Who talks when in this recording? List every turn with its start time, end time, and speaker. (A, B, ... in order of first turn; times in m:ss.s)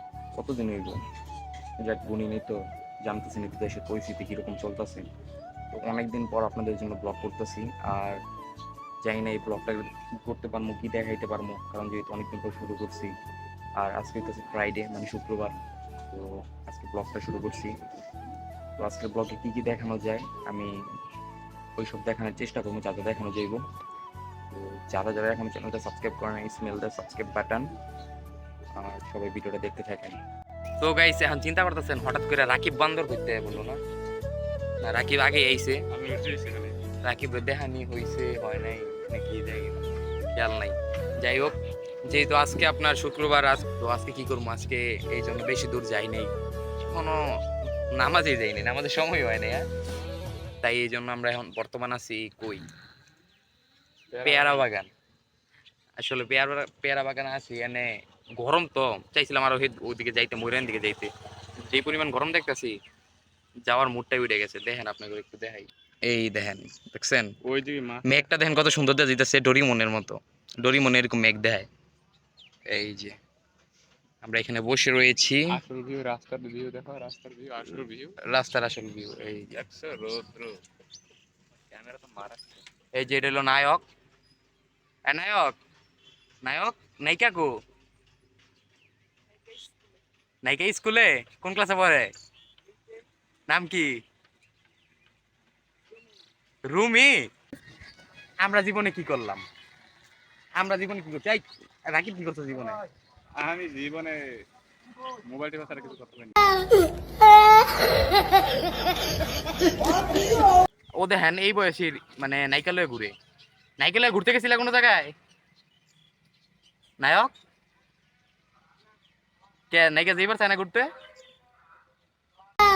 0:00.4-0:01.0 A
0:01.8-0:05.1 A
0:05.7-0:08.2 A
0:09.0-0:13.1 A
0:13.8-0:15.5 A
0:16.1-0:17.8 A
0:18.8-0:20.8 A
0:21.8-0:23.6 A
0:24.5-0:27.7 A
0:28.8-0:30.2 A
0:30.8-0:33.8 A
0:34.8-0:35.8 A
0:35.9-0:36.8 B
0:37.0-0:41.6 A
0:42.1-0:46.3 A
0:46.9-0:47.2 A
0:47.9-0:49.6 A
0:50.6-0:52.6 A
0:54.1-0:54.7 B
0:54.2-0:54.9 A
0:56.0-1:01.1 A
1:01.6-1:02.8 A
1:03.7-1:07.3 A
1:07.4-1:08.1 B
1:08.0-1:11.7 A
1:12.7-1:13.2 A
1:14.2-1:15.6 A
1:15.5-1:18.2 B
1:18.2-1:19.5 A
1:19.5-1:20.6 B
1:21.7-1:22.4 B
1:23.0-1:23.8 A
1:25.1-1:25.6 A
1:26.4-1:27.5 A
1:30.4-1:32.1 A
1:33.5-1:33.9 A
1:36.7-1:37.3 A
1:38.4-1:39.4 A
1:40.6-1:42.8 A
1:43.4-1:44.2 B
1:45.2-1:46.4 B
1:51.0-1:53.1 A
1:53.8-1:55.1 A
1:57.0-1:57.3 A
1:59.7-2:00.9 A